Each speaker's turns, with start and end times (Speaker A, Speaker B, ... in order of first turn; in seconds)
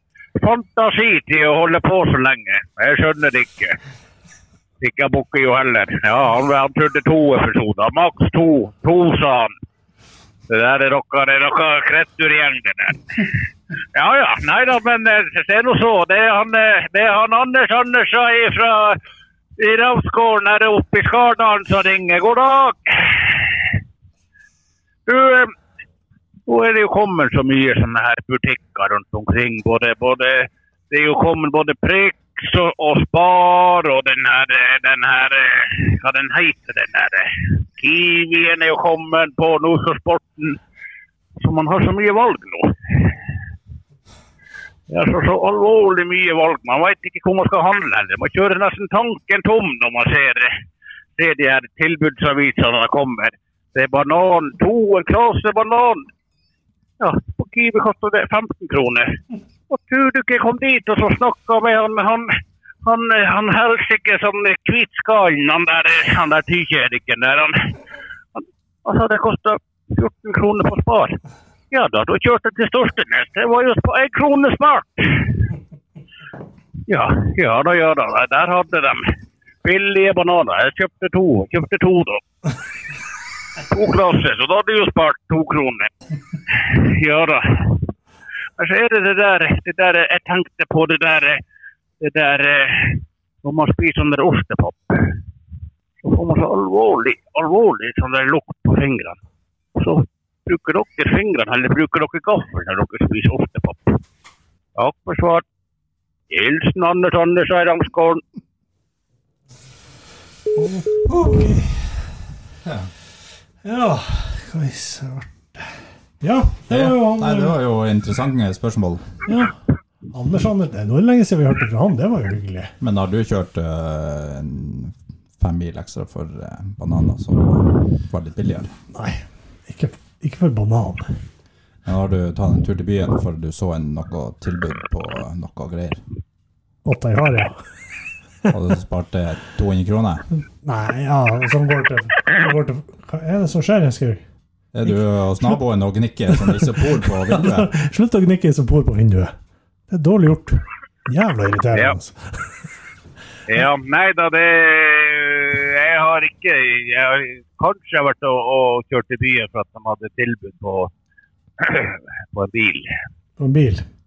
Speaker A: 0.4-3.8, 4.8-9.5, 10.5-13.3, 13.9-19.0, 19.6-23.7, 25.1-25.5, 26.5-40.6, 41.4-42.7, 44.9-50.5, 51.1-56.1, 57.0-59.2, 59.7-62.3, 62.8-67.5, 68.3-71.2, 71.7-75.4, 76.9-79.0, 79.6-82.2, 83.7-85.9, 86.5-87.8, 88.6-91.4, 92.0-95.2, 96.0-99.2, 99.8-104.0, 104.8-105.4, 106.3-108.2, 153.5-160.9, 161.6-162.9
Speaker B: 110.5-111.8, 113.6-115.7, 116.2-117.5, 119.3-119.5, 120.1-122.7, 128.9-131.1, 136.8-137.6, 140.6-144.2, 146.4-149.3, 149.9-152.4, 163.4-163.9
Speaker C: 111.1-111.5, 112.6-112.9, 116.7-119.1, 122.8-128.7, 131.9-136.0, 138.5-140.2, 144.7-147.7